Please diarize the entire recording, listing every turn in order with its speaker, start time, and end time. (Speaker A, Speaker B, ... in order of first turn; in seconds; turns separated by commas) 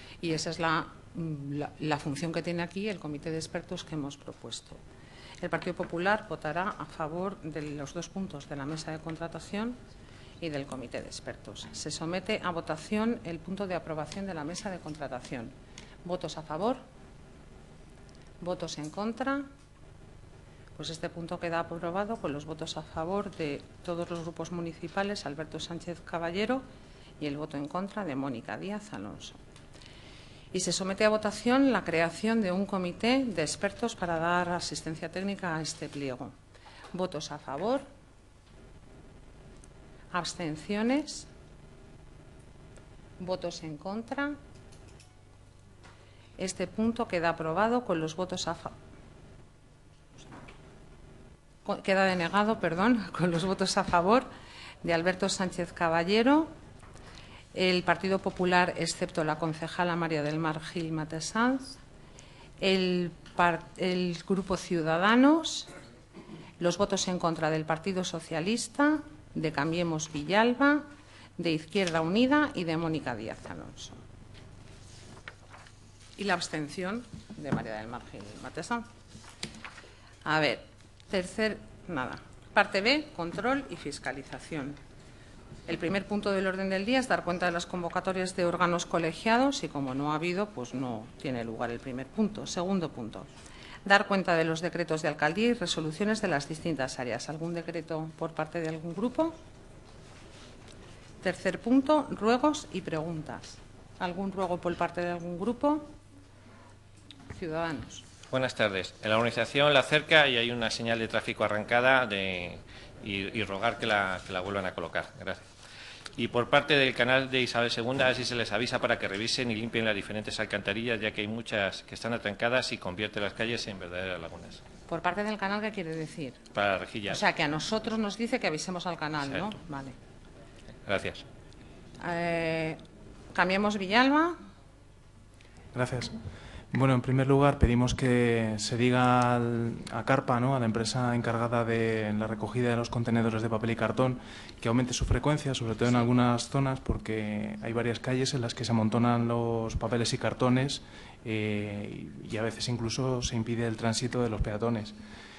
Speaker A: 0.2-4.8, Speaker A: 5.4-9.8, Speaker A: 10.4-15.5, Speaker A: 16.1-16.8, Speaker A: 18.4-19.4, Speaker A: 20.8-26.6, Speaker A: 27.2-29.4, Speaker A: 30.5-36.3, Speaker A: 36.9-37.9, Speaker A: 40.1-41.3, Speaker A: 43.2-44.4, Speaker A: 46.4-48.7, Speaker A: 51.6-54.3, Speaker A: 54.8-56.5, Speaker A: 57.5-61.8, Speaker A: 62.6-65.7, Speaker A: 66.6-70.8, Speaker A: 71.4-74.0, Speaker A: 76.2-78.8, Speaker A: 80.2-84.8, Speaker A: 85.7-93.3, Speaker A: 93.9-99.4, Speaker A: 101.2-105.9, Speaker A: 107.3-108.1, Speaker B: 108.3-115.5, Speaker B: 116.2-124.6, Speaker A: 124.9-126.4, Speaker B: 126.5-127.2, Speaker A: 127.1-129.9, Speaker B: 130.9-131.2, Speaker A: 132.0-132.8, Speaker A: 133.3-134.4, Speaker C: 135.7-136.1, Speaker C: 136.7-154.9